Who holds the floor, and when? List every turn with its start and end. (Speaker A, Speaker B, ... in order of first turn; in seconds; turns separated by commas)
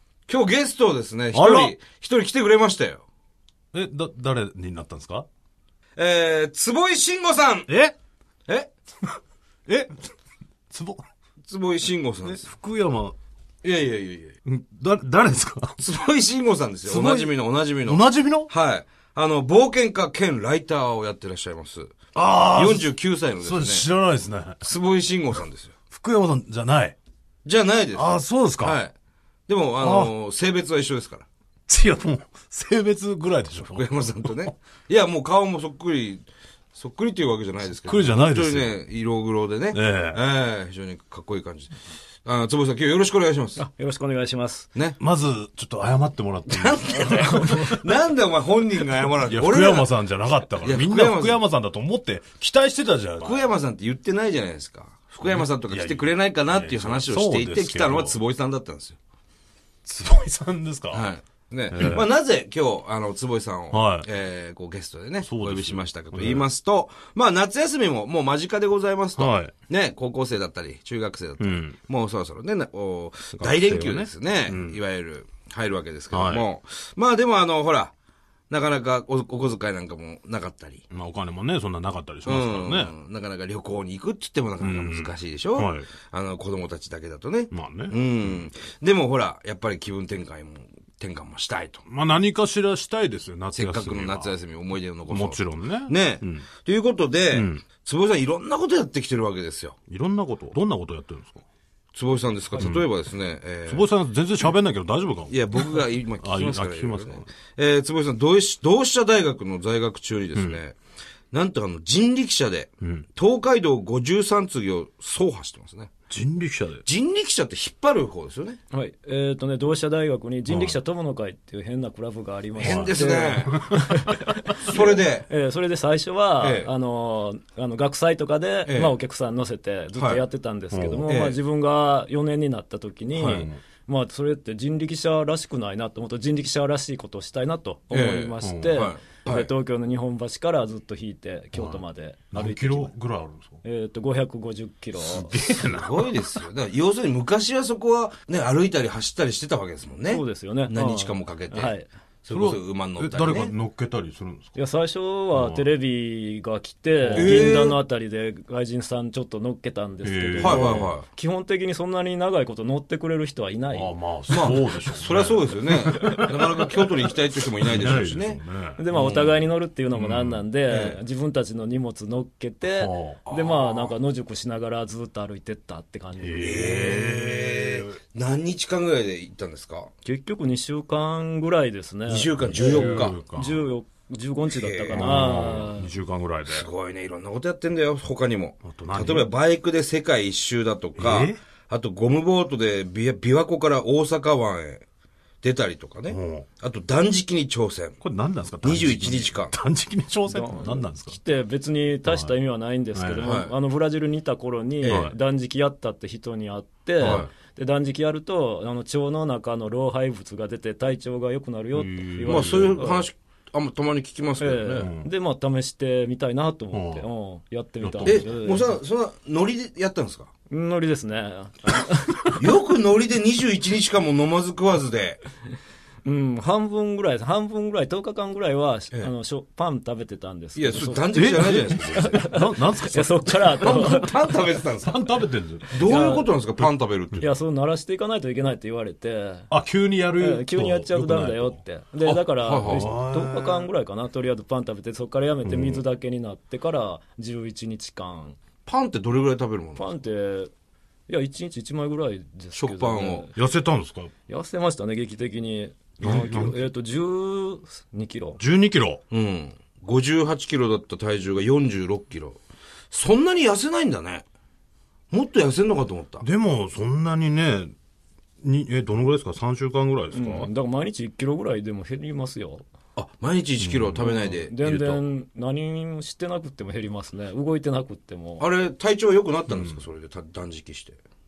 Speaker A: 0.3-3.0, Speaker B: 1.3-1.7, Speaker B: 3.7-5.3, Speaker A: 6.0-7.7, Speaker B: 7.7-8.0, Speaker B: 9.7-10.0, Speaker B: 10.7-11.1, Speaker A: 11.5-12.5, Speaker B: 12.2-13.2, Speaker A: 13.6-14.4, Speaker B: 14.4-15.8, Speaker A: 15.8-21.9, Speaker B: 16.9-18.5, Speaker B: 22.1-24.6, Speaker A: 22.5-23.9, Speaker A: 24.6-25.7, Speaker B: 25.9-27.0, Speaker A: 27.4-28.9, Speaker B: 27.9-28.8, Speaker A: 29.5-31.3, Speaker B: 29.8-30.1, Speaker B: 31.7-34.4, Speaker A: 33.7-43.6, Speaker B: 37.8-38.8, Speaker B: 39.7-40.2, Speaker C: 43.6-44.7, Speaker B: 45.0-47.9, Speaker A: 46.5-49.9, Speaker B: 49.2-53.5, Speaker A: 50.6-51.4, Speaker A: 53.2-59.0, Speaker B: 55.2-58.2, Speaker B: 59.9-61.1, Speaker A: 60.9-77.9, Speaker B: 61.7-62.1, Speaker B: 63.7-64.1, Speaker B: 65.2-66.5, Speaker B: 69.2-69.5, Speaker B: 71.4-71.8, Speaker B: 73.3-74.8, Speaker B: 76.1-76.5, Speaker A: 78.5-80.8, Speaker B: 80.9-82.9, Speaker A: 82.2-91.8, Speaker B: 84.6-85.9, Speaker B: 87.5-88.0, Speaker B: 91.9-94.3, Speaker A: 93.5-99.8, Speaker B: 95.1-96.5, Speaker B: 97.3-97.6, Speaker B: 99.9-101.4, Speaker A: 101.9-103.9, Speaker B: 102.6-102.9, Speaker B: 103.7-107.3, Speaker A: 105.3-110.8, Speaker A: 111.3-115.9, Speaker B: 112.8-113.1, Speaker B: 116.1-116.8, Speaker A: 116.8-118.6, Speaker C: 118.7-142.9, Speaker B: 120.5-120.8, Speaker A: 122.6-123.7, Speaker B: 122.6-124.3, Speaker A: 124.6-125.3, Speaker A: 126.4-126.7, Speaker A: 128.7-128.9, Speaker A: 130.0-130.2, Speaker B: 130.7-131.1, Speaker A: 131.1-131.4, Speaker A: 133.1-133.5, Speaker B: 133.2-133.6, Speaker A: 137.9-139.5, Speaker B: 138.4-138.8, Speaker B: 141.5-141.8, Speaker B: 142.3-143.6, Speaker C: 143.6-145.4, Speaker B: 145.0-146.2, Speaker A: 145.7-153.5, Speaker C: 150.1-151.9, Speaker B: 152.3-154.6, Speaker C: 154.6-164.0, Speaker B: 155.3-155.7, Speaker B: 157.0-157.5, Speaker A: 157.2-157.8, Speaker B: 160.0-160.9, Speaker A: 160.4-161.1, Speaker B: 163.7-166.5, Speaker A: 164.3-169.4, Speaker B: 167.6-168.8, Speaker C: 168.8-177.1, Speaker B: 169.9-170.4, Speaker A: 170.7-171.0, Speaker B: 172.7-173.3, Speaker A: 173.3-173.9, Speaker B: 176.2-178.0, Speaker A: 176.3-179.9, Speaker C: 180.1-185.9, Speaker A: 182.1-183.2, Speaker B: 182.4-183.6, Speaker A: 184.5-185.7, Speaker B: 184.9-186.7, Speaker A: 186.5-194.8, Speaker B: 188.6-189.3, Speaker B: 191.0-191.4, Speaker A: 195.4-198.0, Speaker B: 196.1-196.5, Speaker B: 198.0-201.2, Speaker A: 198.6-199.5, Speaker C: 200.3-213.1, Speaker B: 202.1-202.3, Speaker B: 202.9-203.4, Speaker A: 203.2-203.5, Speaker B: 204.8-205.1, Speaker A: 204.8-205.1, Speaker B: 207.0-207.3, Speaker A: 207.0-207.3, Speaker B: 211.7-212.8, Speaker A: 212.3-214.9, Speaker C: 214.4-218.8, Speaker B: 214.8-215.1, Speaker B: 216.7-217.1, Speaker B: 217.8-218.2, Speaker A: 218.1-220.3, Speaker C: 220.5-222.4, Speaker A: 222.4-225.2, Speaker C: 226.1-234.1, Speaker A: 230.6-232.2, Speaker B: 231.1-233.9, Speaker A: 233.6-235.0, Speaker B: 234.8-235.9, Speaker A: 235.7-237.3, Speaker C: 235.8-236.3, Speaker B: 236.6-237.2, Speaker C: 237.2-239.5, Speaker B: 239.5-241.6, Speaker C: 240.2-248.4, Speaker A: 242.0-242.9, Speaker B: 242.7-243.7, Speaker B: 245.4-245.8, Speaker A: 248.7-249.9, Speaker C: 249.8-250.5, Speaker C: 251.1-253.3, Speaker A: 252.5-253.3, Speaker B: 253.4-254.1, Speaker C: 254.3-258.4, Speaker B: 256.0-256.6, Speaker B: 258.4-259.0, Speaker A: 259.1-262.4, Speaker A: 262.9-264.2, Speaker A: 265.1-266.3, Speaker B: 266.2-267.8, Speaker B: 268.4-270.5, Speaker C: 270.1-272.6, Speaker A: 273.0-275.0, Speaker B: 273.6-274.0, Speaker C: 274.0-278.5, Speaker A: 278.4-281.0, Speaker B: 279.5-279.8